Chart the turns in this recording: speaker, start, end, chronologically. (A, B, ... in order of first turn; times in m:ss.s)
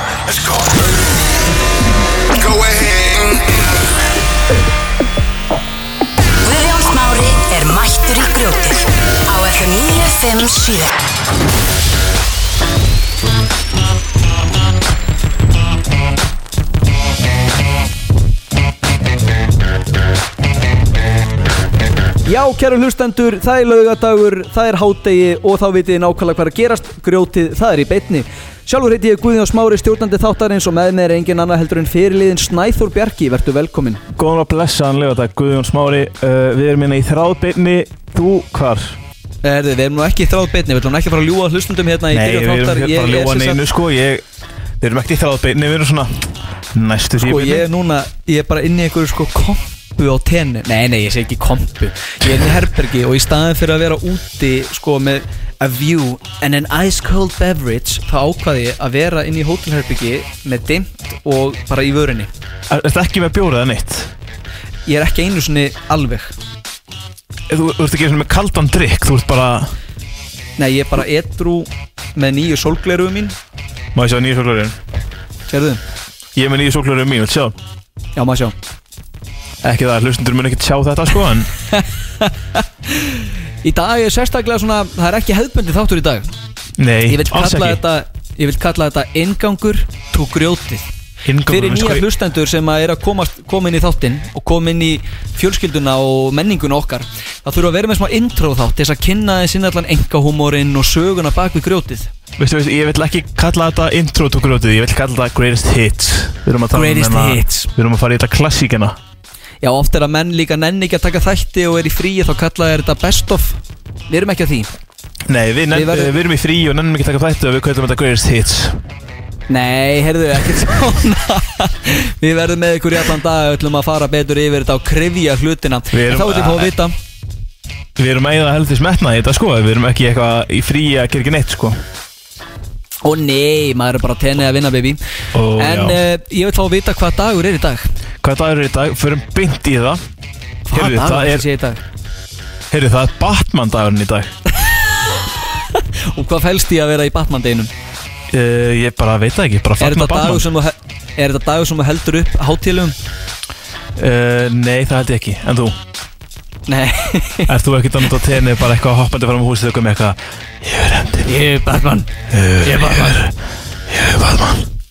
0:06.4-0:10.9 A
0:22.2-0:34.0 B
0:34.1-0:39.0 C
0:39.4-0:43.6 B
0:42.1-0:44.2 C
0:44.8-0:47.7 C
0:47.2-1:02.3 B
1:02.7-1:04.1 C
1:04.9-1:06.3 B
1:07.5-1:09.7 C
1:10.6-1:13.4 B
1:13.9-1:14.8 C
1:15.5-1:15.8 B
1:16.4-1:17.6 C
1:18.2-1:18.6 B
1:19.6-1:21.5 C
1:21.7-1:26.3 B
1:26.8-1:27.8 C
1:27.1-1:30.9 B
1:31.2-1:32.1 C
1:31.5-1:42.1 B
1:42.4-1:49.0 C
1:46.7-1:47.7 B
1:49.6-1:54.7 B
1:55.3-1:58.8 C
1:55.7-1:56.2 B
1:59.5-2:07.0 B
2:05.9-2:06.7 C
2:08.0-2:11.8 C
2:13.0-2:15.0 B
2:15.3-2:16.0 C
2:15.6-2:17.8 B
2:18.2-2:20.0 C
2:20.7-2:21.8 B
2:20.7-2:21.5 C
2:22.7-2:24.3 C
2:25.8-2:27.7 B
2:28.3-2:30.5 C
2:29.8-2:33.0 B
2:34.0-2:35.8 C
2:36.7-2:37.5 B
2:37.5-2:41.3 C
2:41.2-2:42.1 B
2:42.3-2:43.4 C
2:42.6-2:43.2 B
2:43.9-2:44.7 C